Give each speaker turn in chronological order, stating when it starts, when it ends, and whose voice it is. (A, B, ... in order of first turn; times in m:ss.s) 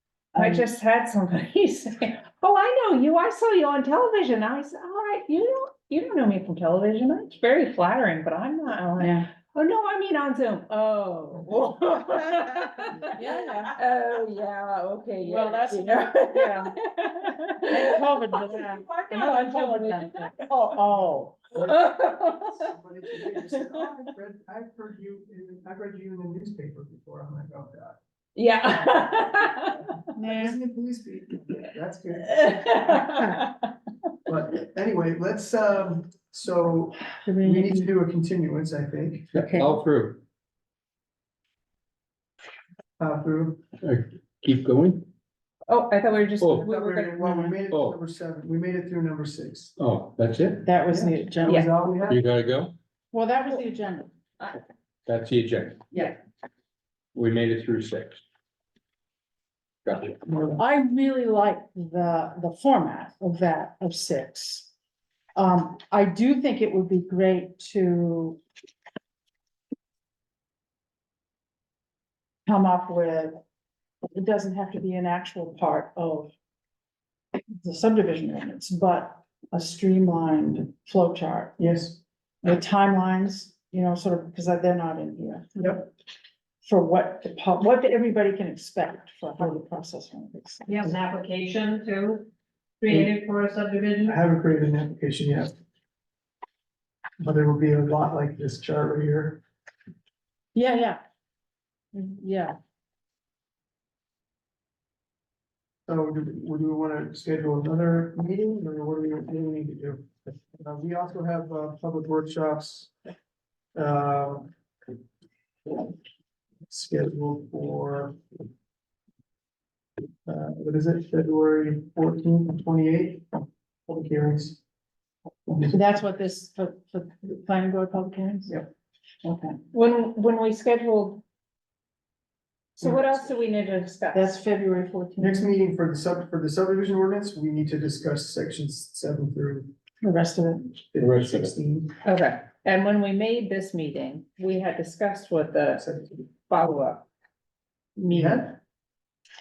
0:00.3-0:20.9 A
0:00.4-0:00.6 B
0:09.0-0:09.3 B
0:13.1-0:13.8 B
0:15.2-0:21.4 B
0:21.5-0:23.8 A
0:22.5-0:28.0 C
0:28.4-0:30.0 A
0:30.2-0:30.6 B
0:30.2-0:33.1 C
0:32.3-0:33.6 A
0:34.2-0:39.5 C
0:37.2-0:37.9 B
0:39.3-0:40.2 D
0:43.0-0:43.6 C
0:43.8-0:45.1 D
0:45.7-0:47.2 A
0:46.4-0:46.6 D
0:46.6-0:49.7 C
0:47.2-0:47.6 B
0:47.7-0:48.0 D
0:49.8-0:50.6 D
0:50.6-0:51.7 B
0:50.9-0:52.2 C
0:51.4-0:51.7 A
0:52.1-0:52.7 D
0:53.1-0:54.1 B
0:55.0-0:55.8 D
0:57.1-0:58.2 D
0:59.8-1:00.2 D
1:00.3-1:00.6 C
1:00.6-1:04.7 B
1:05.4-1:08.4 B
1:12.4-1:13.4 B
1:14.1-1:16.3 B
1:17.6-1:21.6 B
1:21.6-1:22.0 C
1:22.4-1:25.6 B
1:25.6-1:25.9 C
1:26.6-1:30.9 B
1:30.7-1:32.3 E
1:32.8-1:34.2 E
1:34.0-1:35.5 C
1:37.2-1:39.4 C
1:40.5-1:41.0 B
1:41.9-1:42.6 B
1:45.9-1:52.9 C
1:53.7-1:54.5 C
1:55.6-1:55.9 C
1:56.7-1:58.4 C
2:00.2-2:04.6 C
2:05.5-2:05.9 C
2:05.7-2:08.5 B
2:09.2-2:11.2 A
2:12.8-2:14.4 A
2:12.8-2:13.2 C
2:14.1-2:15.5 B
2:15.2-2:19.7 C
2:20.0-2:20.8 B
2:20.9-2:21.9 C
2:21.0-2:21.5 D
2:22.0-2:27.1 A
2:25.8-2:26.2 C
2:28.0-2:28.6 C
2:28.0-2:28.4 A